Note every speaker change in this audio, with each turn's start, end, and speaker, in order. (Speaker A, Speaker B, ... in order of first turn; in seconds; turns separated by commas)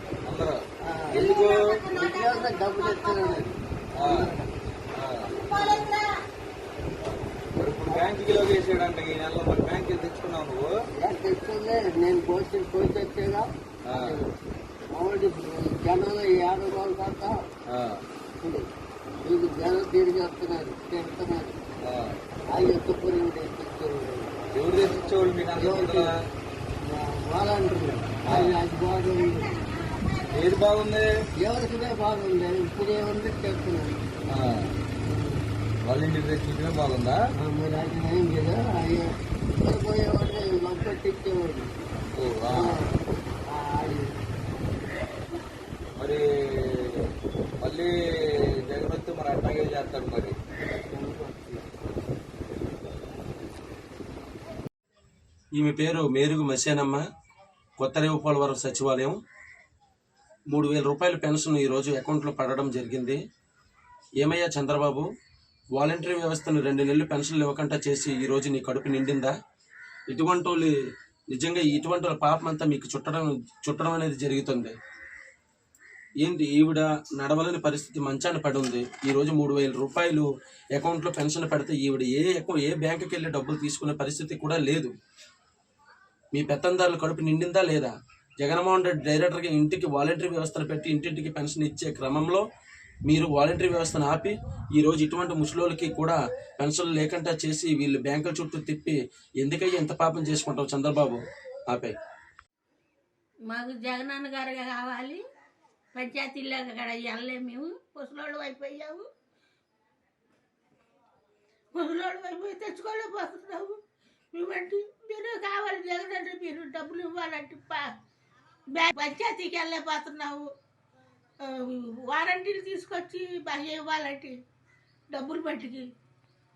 Speaker A: 0.2-0.6, Speaker B: 0.8-1.3, Speaker A: 1.1-1.6, Speaker B: 1.9-4.5, Speaker A: 4.0-4.3, Speaker A: 4.9-5.4, Speaker B: 5.4-5.9, Speaker A: 7.6-10.7, Speaker B: 11.0-14.3, Speaker A: 13.8-14.2, Speaker B: 14.9-17.4, Speaker A: 17.7-18.0, Speaker B: 18.4-18.7, Speaker B: 19.2-21.6, Speaker A: 21.8-22.2, Speaker B: 22.5-24.3, Speaker A: 24.5-26.1, Speaker B: 25.6-26.1, Speaker B: 26.8-29.5, Speaker A: 28.2-28.6, Speaker A: 30.3-31.1, Speaker B: 31.4-33.9, Speaker A: 34.3-34.7, Speaker B: 35.0-35.4, Speaker A: 35.8-37.2, Speaker B: 37.4-41.7, Speaker A: 42.1-42.8, Speaker B: 42.5-42.9, Speaker B: 43.5-44.1, Speaker A: 46.0-47.1, Speaker A: 47.6-47.9, Speaker A: 48.6-50.3, Speaker B: 50.9-51.6, Speaker C: 55.5-57.0, Speaker C: 57.8-59.2, Speaker C: 60.5-63.2, Speaker C: 64.2-65.0, Speaker C: 65.7-69.3, Speaker C: 70.1-70.7, Speaker C: 71.3-74.7, Speaker C: 76.2-84.9, Speaker C: 86.3-92.4, Speaker C: 93.0-101.9, Speaker D: 103.5-105.2, Speaker D: 105.9-109.0, Speaker D: 111.7-113.8, Speaker D: 114.3-117.9, Speaker D: 118.7-120.5, Speaker D: 121.4-124.3, Speaker D: 125.1-125.8